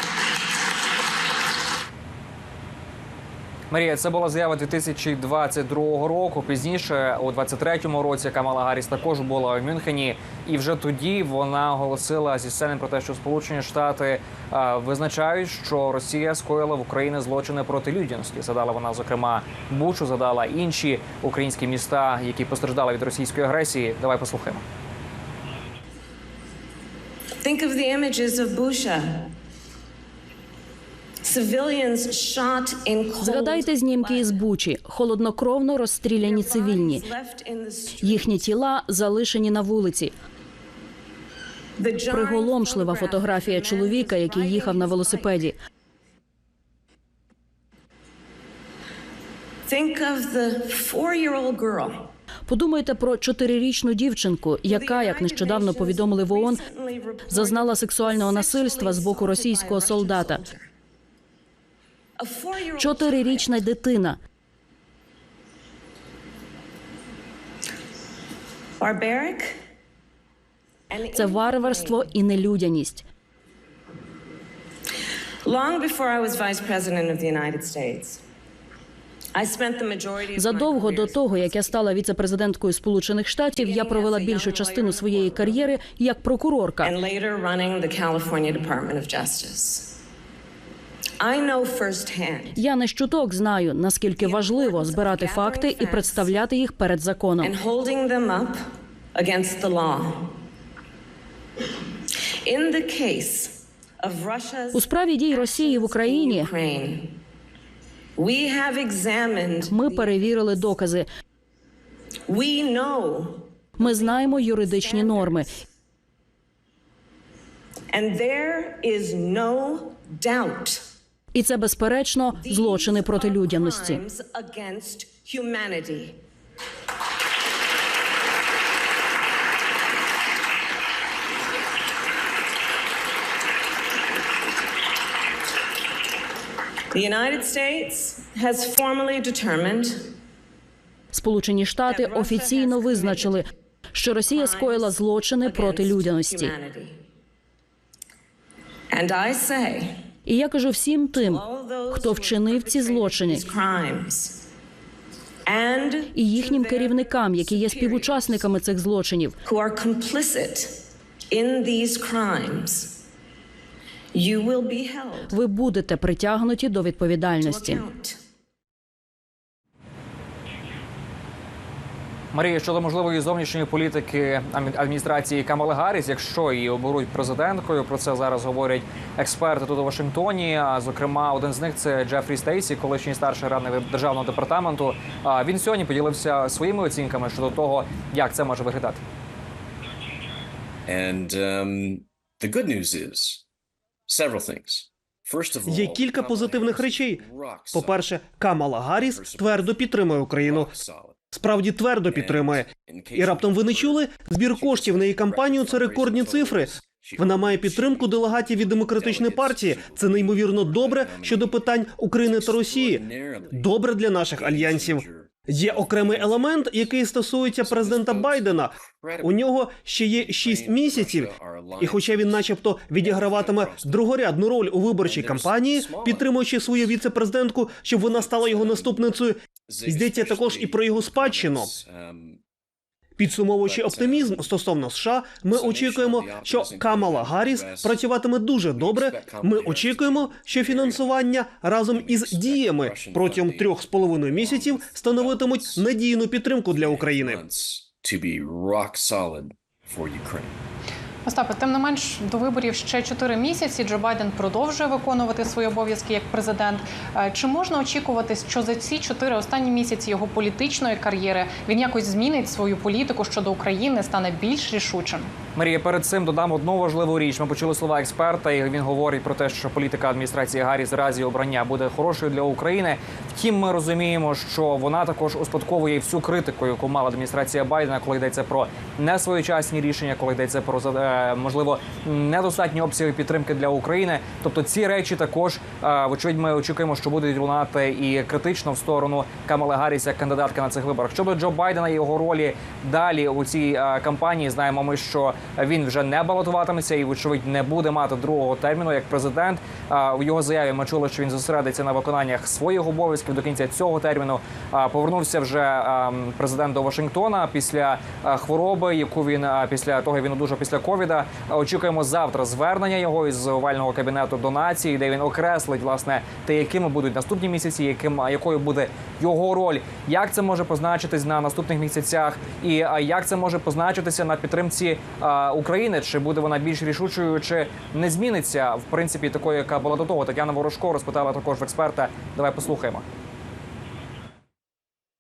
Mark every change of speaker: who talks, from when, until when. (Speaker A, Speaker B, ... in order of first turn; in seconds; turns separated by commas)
Speaker A: 3.7-24.6, Speaker B: 27.4-29.3, Speaker B: 31.2-34.4, Speaker C: 33.2-37.0, Speaker B: 36.2-38.5, Speaker C: 38.0-40.1, Speaker B: 41.8-45.5, Speaker C: 42.1-45.6, Speaker B: 49.7-52.1, Speaker C: 52.5-56.6, Speaker B: 54.6-60.7, Speaker C: 57.3-60.4, Speaker B: 62.2-63.6, Speaker C: 62.8-64.2, Speaker B: 68.8-69.6, Speaker B: 70.9-72.1, Speaker C: 71.1-73.0, Speaker B: 75.4-78.2, Speaker B: 79.3-81.8, Speaker C: 80.3-86.9, Speaker B: 83.5-85.7, Speaker B: 86.8-90.0, Speaker B: 91.2-92.6, Speaker C: 92.6-97.5, Speaker B: 94.2-96.4, Speaker B: 97.4-98.6, Speaker B: 99.2-100.3, Speaker B: 102.4-107.2, Speaker C: 104.7-106.5, Speaker B: 108.2-110.3, Speaker C: 109.7-111.1, Speaker B: 112.3-115.5, Speaker C: 113.8-115.5, Speaker B: 117.9-120.8, Speaker C: 121.3-124.0, Speaker B: 122.3-126.2, Speaker B: 136.9-140.1, Speaker C: 141.1-146.5, Speaker B: 141.9-143.4, Speaker B: 144.3-147.0, Speaker B: 148.9-150.0, Speaker C: 150.3-153.4, Speaker B: 151.1-154.4, Speaker B: 155.5-158.4, Speaker C: 156.1-159.4, Speaker B: 159.4-160.8, Speaker B: 161.3-163.0, Speaker B: 164.1-165.3, Speaker C: 165.3-167.8, Speaker B: 167.4-168.2, Speaker A: 172.3-189.0, Speaker D: 190.9-193.4, Speaker D: 194.1-198.1, Speaker E: 195.7-200.7, Speaker D: 198.9-199.8, Speaker D: 200.4-201.2, Speaker E: 201.3-231.7, Speaker D: 202.1-213.8, Speaker D: 214.3-216.7, Speaker D: 217.6-219.4, Speaker D: 220.1-224.2, Speaker D: 225.0-226.3, Speaker D: 228.1-229.0, Speaker D: 229.7-232.4, Speaker E: 233.2-247.4, Speaker D: 233.6-234.5, Speaker D: 235.5-238.0, Speaker D: 238.7-241.3, Speaker D: 241.9-245.9, Speaker D: 246.7-250.5, Speaker F: 251.2-265.3, Speaker A: 265.6-333.0